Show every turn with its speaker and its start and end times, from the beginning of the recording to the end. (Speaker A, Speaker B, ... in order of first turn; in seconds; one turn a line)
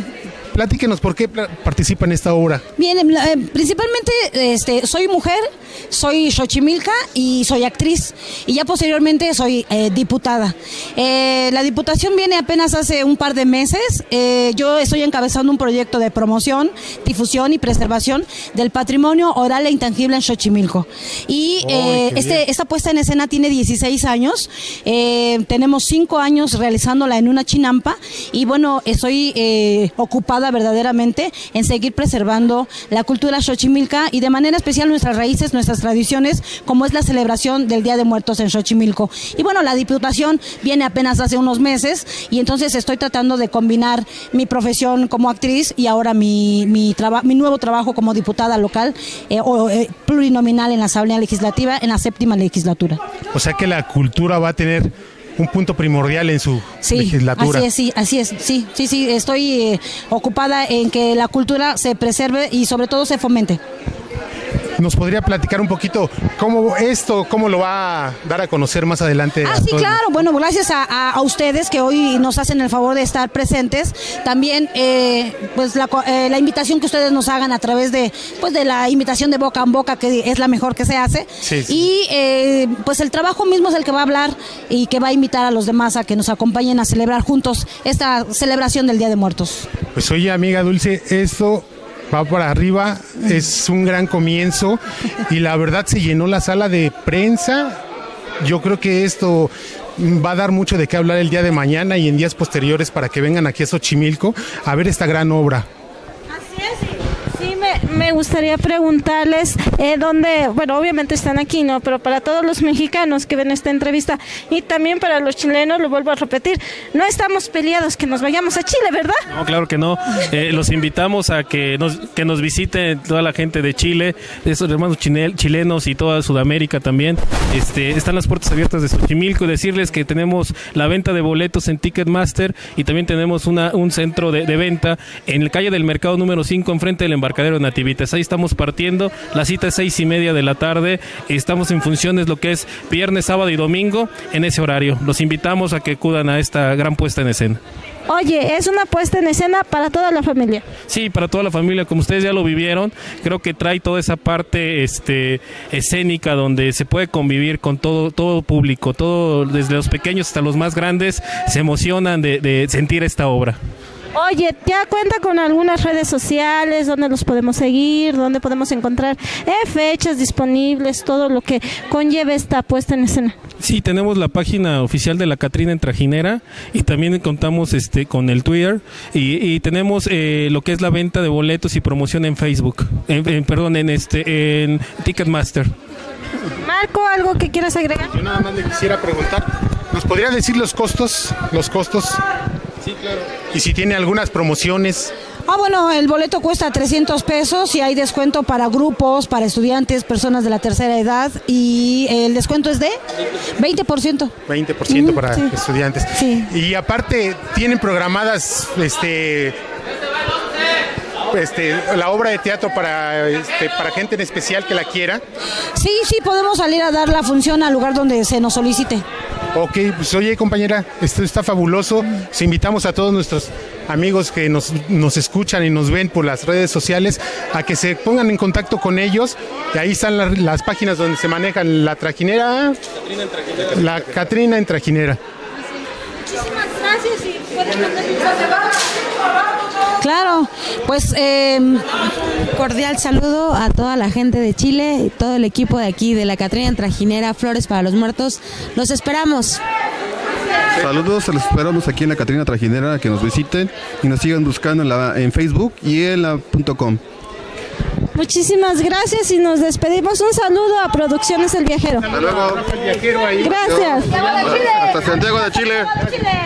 Speaker A: 0.5-2.6
Speaker B: 2.8-53.0
Speaker A: 21.6-22.4
Speaker A: 53.3-57.7
Speaker B: 56.8-63.6
Speaker A: 64.8-70.0
Speaker B: 69.4-89.7
Speaker A: 81.4-81.8
Speaker A: 89.9-97.8
Speaker A: 98.4-105.7
Speaker C: 106.4-119.2
Speaker D: 119.3-147.6
Speaker C: 148.1-150.6
Speaker D: 150.9-163.6
Speaker C: 164.1-173.3
Speaker D: 173.6-185.7
Speaker C: 186.5-188.1
Speaker A: 188.1-192.2
Speaker A: 193.5-195.1
Speaker B: 195.5-203.0
Speaker B: 203.6-204.3
Speaker A: 204.4-209.6
Speaker B: 204.9-205.5
Speaker B: 206.1-206.5
Speaker A: 211.3-215.2
Speaker B: 215.8-219.0
Speaker A: 219.5-232.8
Speaker A: 233.6-235.2
Speaker C: 236.6-238.2
Speaker B: 240.0-241.8
Speaker E: 242.5-249.6
Speaker F: 250.8-257.0
Speaker C: 258.1-262.1
Speaker A: 262.1-263.6
Speaker F: 262.1-262.7
Speaker C: 263.4-264.3
Speaker F: 263.5-266.0